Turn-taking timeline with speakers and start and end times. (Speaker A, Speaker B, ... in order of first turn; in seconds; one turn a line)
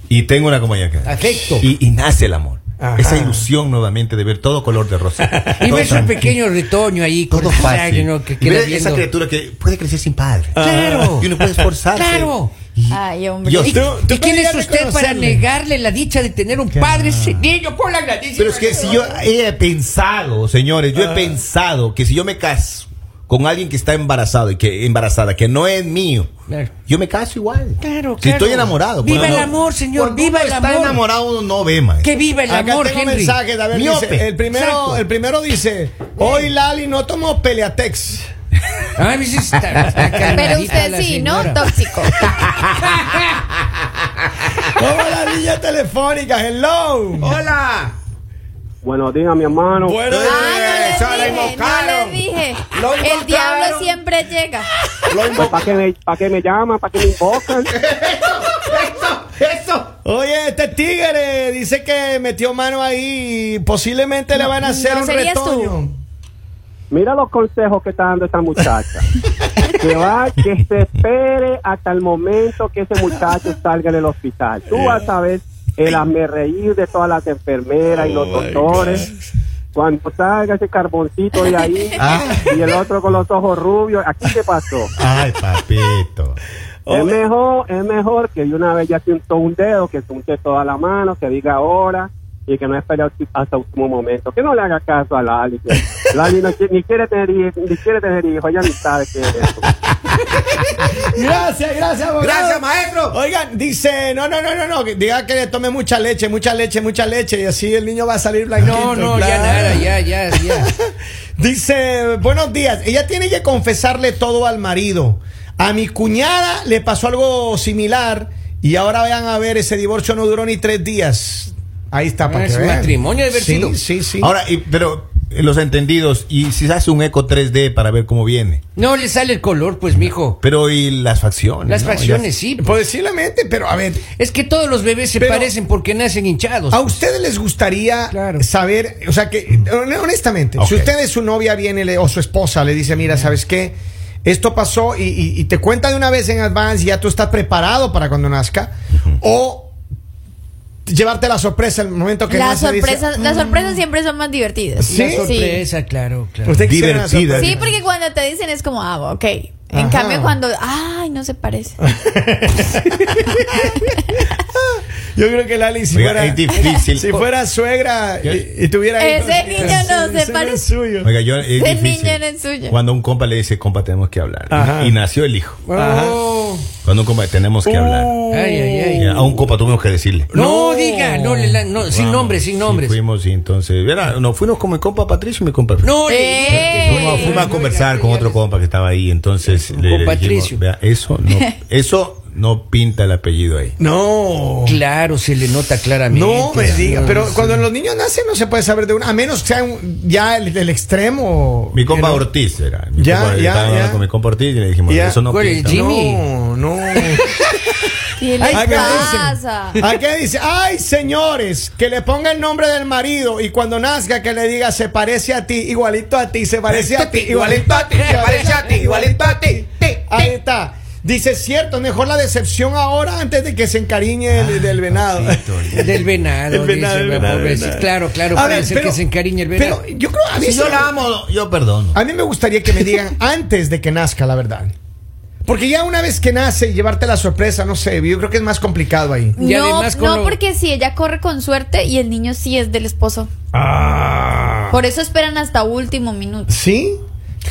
Speaker A: 0.1-6.3
Speaker B: 1.0-1.7
Speaker C: 2.8-3.5
Speaker C: 5.2-6.3
Speaker B: 5.6-9.1
Speaker A: 7.3-13.9
Speaker C: 10.5-11.7
Speaker B: 10.6-11.3
Speaker B: 11.9-12.5
Speaker D: 12.9-13.9
Speaker C: 13.7-15.5
Speaker B: 13.7-19.2
Speaker A: 16.8-17.4
Speaker A: 18.4-32.1
Speaker C: 20.9-21.4
Speaker B: 27.8-31.0
Speaker C: 29.1-29.5
Speaker B: 32.0-33.4
Speaker C: 32.5-38.3
Speaker A: 33.7-35.0
Speaker B: 34.5-34.9
Speaker B: 39.0-41.6
Speaker D: 40.3-42.2
Speaker A: 42.2-43.2
Speaker A: 44.4-44.7
Speaker C: 44.7-47.4
Speaker A: 47.2-47.9
Speaker E: 48.8-50.0
Speaker C: 49.8-51.2
Speaker A: 50.0-54.0
Speaker D: 50.2-54.7
Speaker A: 55.0-55.8
Speaker E: 55.4-57.7
Speaker A: 57.7-59.9
Speaker C: 60.0-66.0
Speaker D: 64.3-65.8
Speaker E: 66.9-69.0
Speaker E: 69.8-79.0
Speaker C: 74.7-75.0
Speaker C: 78.0-79.1
Speaker A: 78.7-79.0
Speaker E: 79.7-84.9
Speaker A: 82.0-82.7
Speaker A: 85.0-86.4
Speaker C: 86.9-87.2
Speaker E: 86.9-99.6
Speaker C: 100.6-124.3
Speaker A: 102.2-103.2
Speaker B: 108.6-110.7
Speaker B: 122.2-123.8
Speaker A: 124.2-128.6
Speaker B: 128.8-130.4
Speaker A: 129.9-132.3
Speaker B: 131.7-132.8
Speaker C: 132.6-134.0
Speaker B: 134.2-137.0
Speaker C: 135.2-135.5
Speaker C: 136.7-149.7
Speaker B: 138.1-138.4
Speaker A: 140.6-140.9
Speaker C: 150.9-153.8
Speaker D: 152.3-155.6
Speaker C: 154.8-155.3
Speaker B: 154.9-156.6
Speaker C: 156.4-157.8
Speaker A: 156.6-157.6
Speaker D: 157.3-161.8
Speaker C: 159.7-160.4
Speaker C: 161.8-163.8
Speaker C: 164.4-171.1
Speaker A: 165.9-167.3
Speaker D: 169.0-170.7
Speaker B: 169.6-169.8
Speaker A: 171.0-175.6
Speaker D: 171.5-172.8
Speaker C: 174.5-174.9
Speaker B: 175.6-176.7
Speaker C: 175.7-176.2
Speaker A: 176.8-178.2
Speaker C: 177.6-179.6
Speaker B: 178.3-179.1
Speaker A: 179.0-180.3
Speaker C: 180.3-181.6
Speaker B: 180.3-183.0
Speaker A: 181.8-193.7
Speaker B: 185.8-188.4
Speaker D: 186.1-187.4
Speaker C: 186.8-187.3
Speaker B: 189.4-190.6
Speaker C: 193.8-194.8
Speaker B: 194.6-197.6
Speaker C: 196.1-202.3
Speaker A: 201.7-205.9
Speaker C: 202.9-204.0
Speaker C: 204.9-207.3
Speaker B: 205.3-206.2
Speaker D: 208.2-209.8
Speaker B: 208.4-209.8
Speaker C: 208.4-231.0
Speaker A: 216.7-220.2
Speaker B: 217.9-218.8
Speaker A: 224.3-226.2
Speaker B: 225.8-229.8
Speaker A: 230.3-232.0
Speaker C: 231.9-234.7
Speaker C: 235.4-239.4
Speaker D: 239.3-243.3
Speaker B: 239.4-240.4
Speaker C: 243.5-244.8
Speaker D: 244.7-246.5
Speaker C: 246.5-247.0